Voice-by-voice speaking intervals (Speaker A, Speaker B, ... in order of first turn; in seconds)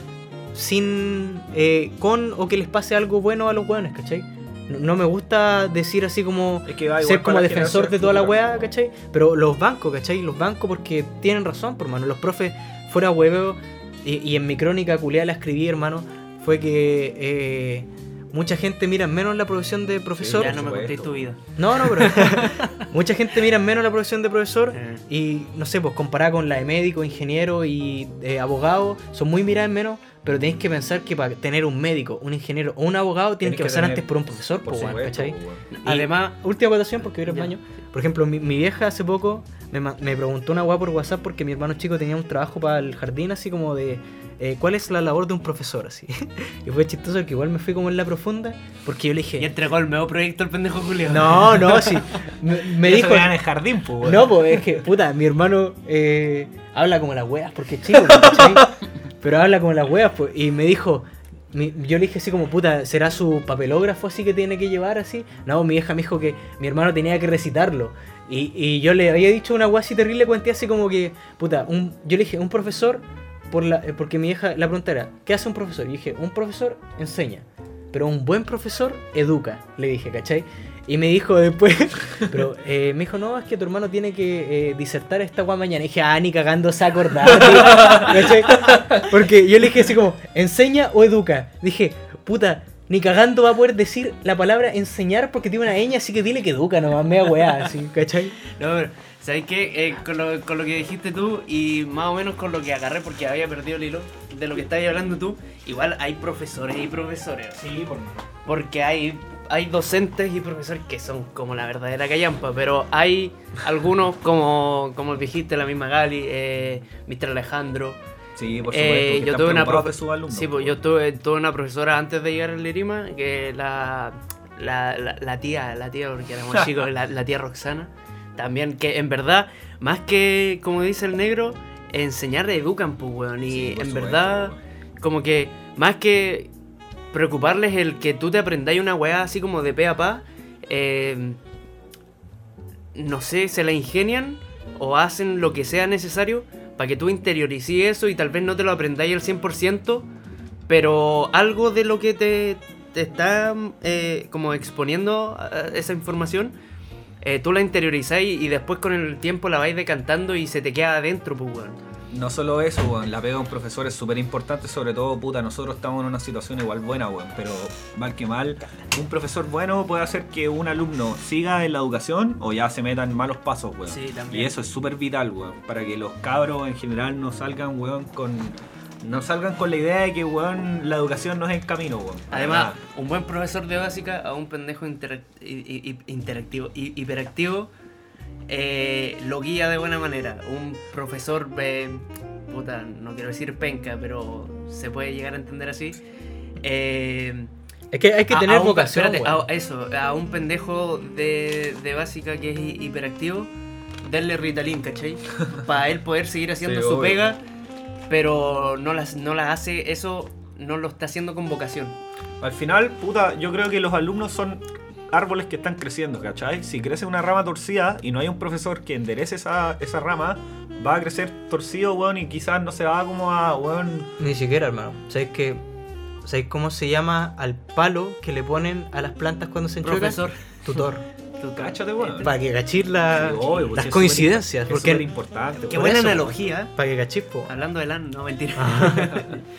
Speaker A: 0.5-20.6, 21.6-49.5, 51.1-53.4, 54.0-58.7, 59.2-98.3, 197.9-199.4, 224.2-225.6, 226.2-231.0, 232.2-235.1, 235.7-237.5, 238.6-239.2
Speaker B: 6.7-8.7, 20.2-21.3, 33.4-35.6, 51.7-52.0, 52.7-54.4, 58.1-58.7, 107.6-108.1, 118.4-120.8, 126.5-126.8, 133.5-134.6, 162.1-182.8, 206.6-207.2, 212.4-224.1, 231.6-232.3, 233.1-236.3
Speaker C: 20.3-22.6, 24.7-25.0, 35.7-36.4, 37.2-37.5, 49.4-52.0, 87.8-88.1, 98.5-107.7, 108.5-118.0, 118.7-136.5, 137.1-141.4, 142.9-150.1, 150.7-156.6, 157.2-161.8, 173.9-174.5, 182.3-187.7, 188.5-196.0, 196.6-197.5, 198.3-203.5, 204.0-207.4, 208.1-212.0, 229.8-230.4, 231.4-232.4, 233.4-233.8, 235.7-236.7, 237.5-239.4